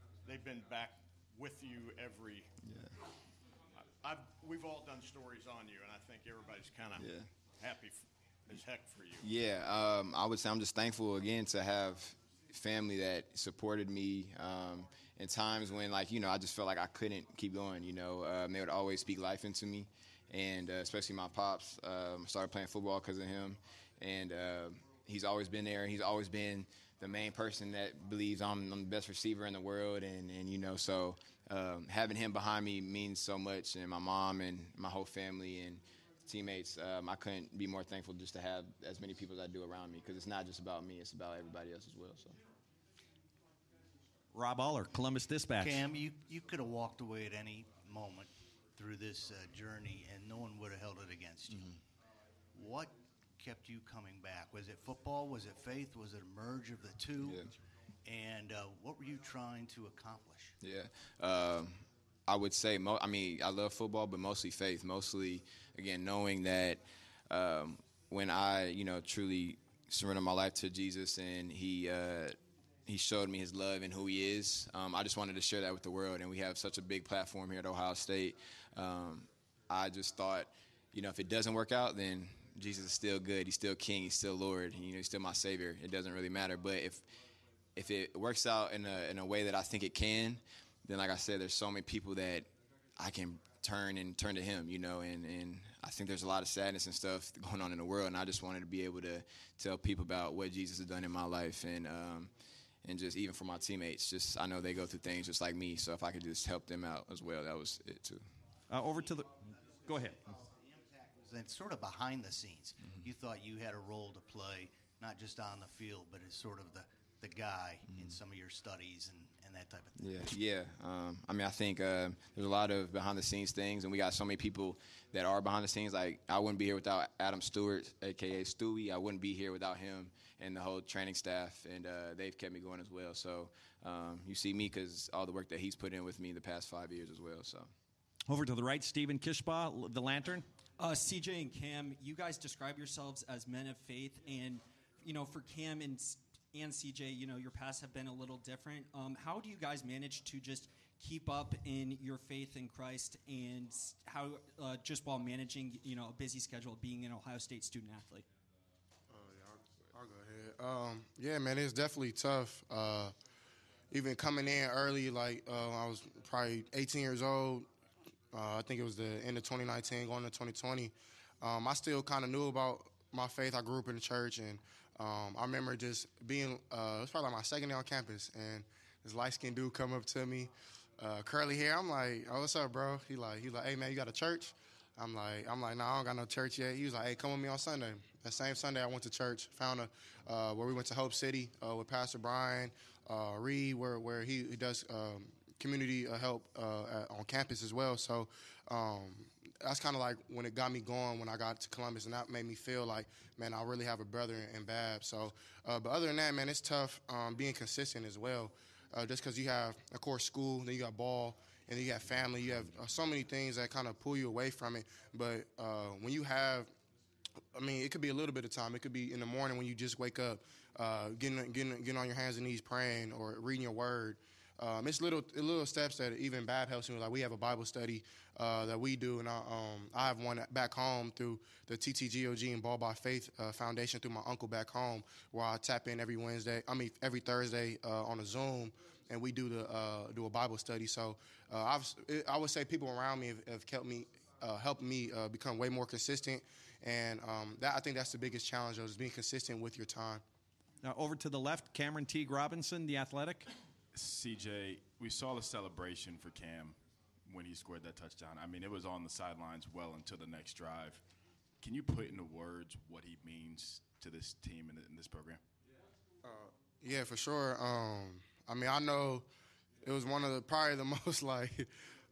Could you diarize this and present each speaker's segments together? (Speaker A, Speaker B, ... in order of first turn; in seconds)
Speaker A: 0.2-2.5, 3.8-9.3
Speaker B: 2.6-2.9, 7.0-7.3, 9.2-42.4, 57.2-57.5, 60.6-72.3, 72.9-87.0, 87.7-102.3, 102.8-108.2, 117.9-118.2, 120.0-137.7
Speaker C: 44.3-45.8, 108.7-109.3, 109.9-110.2, 138.3-140.4, 250.8-253.5
Speaker D: 45.6-51.8, 52.5-57.5, 58.0-60.5, 110.0-120.3
Speaker E: 140.8-158.2
Speaker F: 159.1-163.1, 163.9-167.7, 168.3-216.7, 217.5-250.2, 266.2-269.2, 269.8-271.6
Speaker G: 253.9-261.0, 261.6-265.4